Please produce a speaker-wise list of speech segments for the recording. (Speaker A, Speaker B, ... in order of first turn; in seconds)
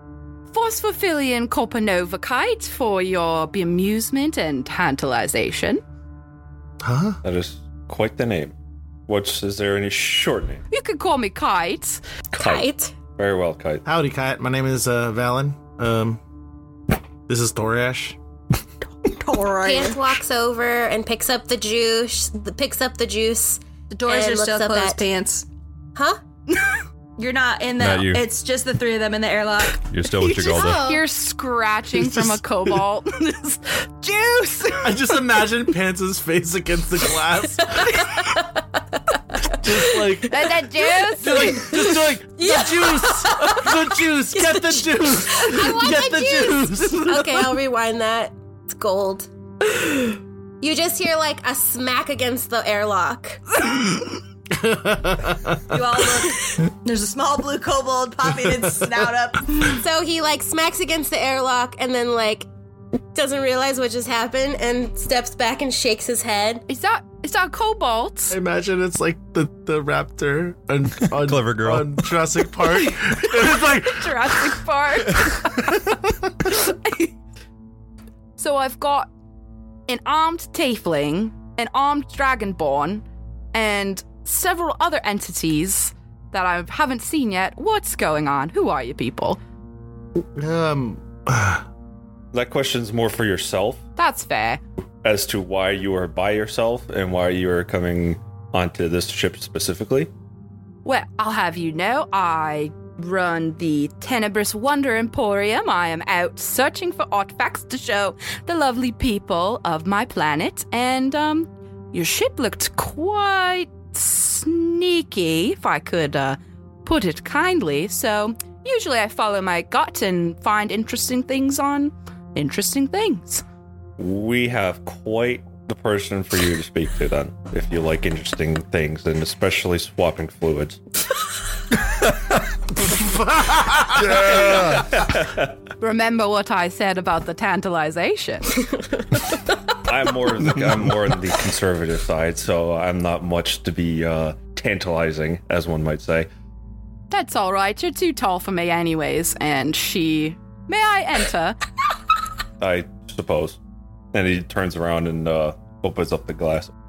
Speaker A: 0.5-5.8, 10.7-12.0, 30.2-35.2, 37.8-38.5, 40.3-41.8, 66.7-68.3, 73.4-75.8, 76.4-77.2, 78.4-79.1, 79.9-89.4, 94.0-94.6, 100.8-123.4, 135.8-138.6, 147.1-151.6
Speaker B: 6.8-7.2, 13.8-16.2, 17.3-18.2, 34.8-38.3, 39.5-47.4, 54.5-55.6, 68.3-74.5, 90.2-91.7, 132.8-134.2
Speaker C: 7.2-8.5, 9.1-10.6, 12.3-13.8, 92.3-93.8, 95.0-100.1, 124.0-130.8, 134.0-135.5, 139.8-146.3, 152.6-153.6, 154.1-156.7
Speaker D: 12.3-12.9, 19.6-25.0, 25.9-26.2, 30.4-31.0, 42.4-43.7, 44.3-50.0, 50.6-53.5, 59.6-62.5, 63.1-66.7
Speaker E: 19.0-20.2, 23.9-25.5, 27.2-29.8, 55.7-59.8
Speaker F: 27.8-28.2, 29.8-30.9, 71.1-72.0, 134.5-134.9